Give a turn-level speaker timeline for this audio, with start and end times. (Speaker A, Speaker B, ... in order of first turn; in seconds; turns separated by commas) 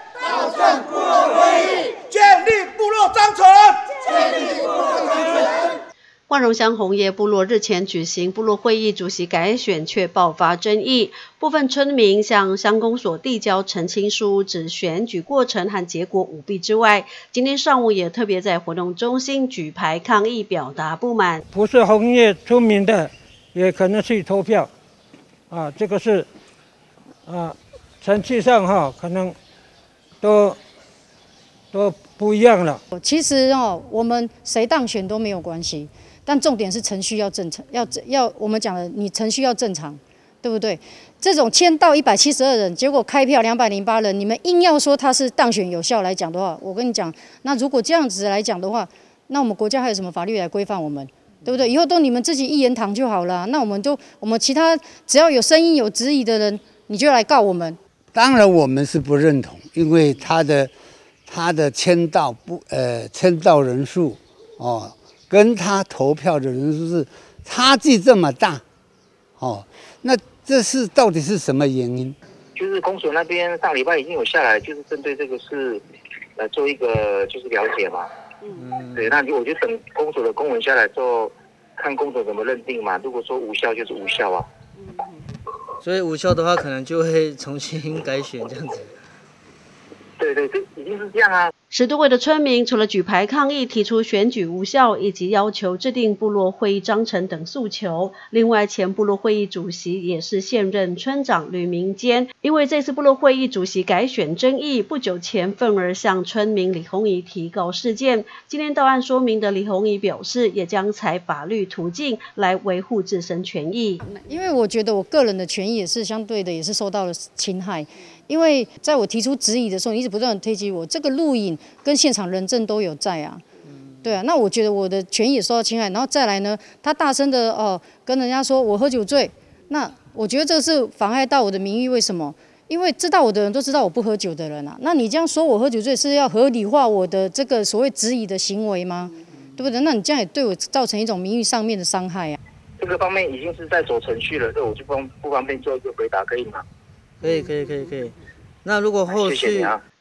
Speaker A: 0.4-3.8, Speaker B: 6.3-21.4, Speaker C: 21.5-24.7, Speaker C: 25.5-26.3, Speaker C: 27.2-29.4, Speaker C: 30.2-30.6, Speaker C: 31.7-32.8, Speaker D: 32.9-57.8, Speaker E: 58.1-60.7, Speaker E: 61.3-68.6, Speaker E: 69.4-72.2, Speaker F: 72.5-75.8, Speaker F: 76.4-78.1, Speaker G: 78.5-79.2, Speaker F: 79.0-84.5, Speaker G: 85.8-88.9, Speaker F: 90.2-91.5, Speaker B: 91.7-114.0, Speaker D: 114.3-123.4, Speaker D: 124.0-142.4, Speaker F: 142.8-146.6, Speaker G: 147.2-149.8, Speaker F: 149.1-149.8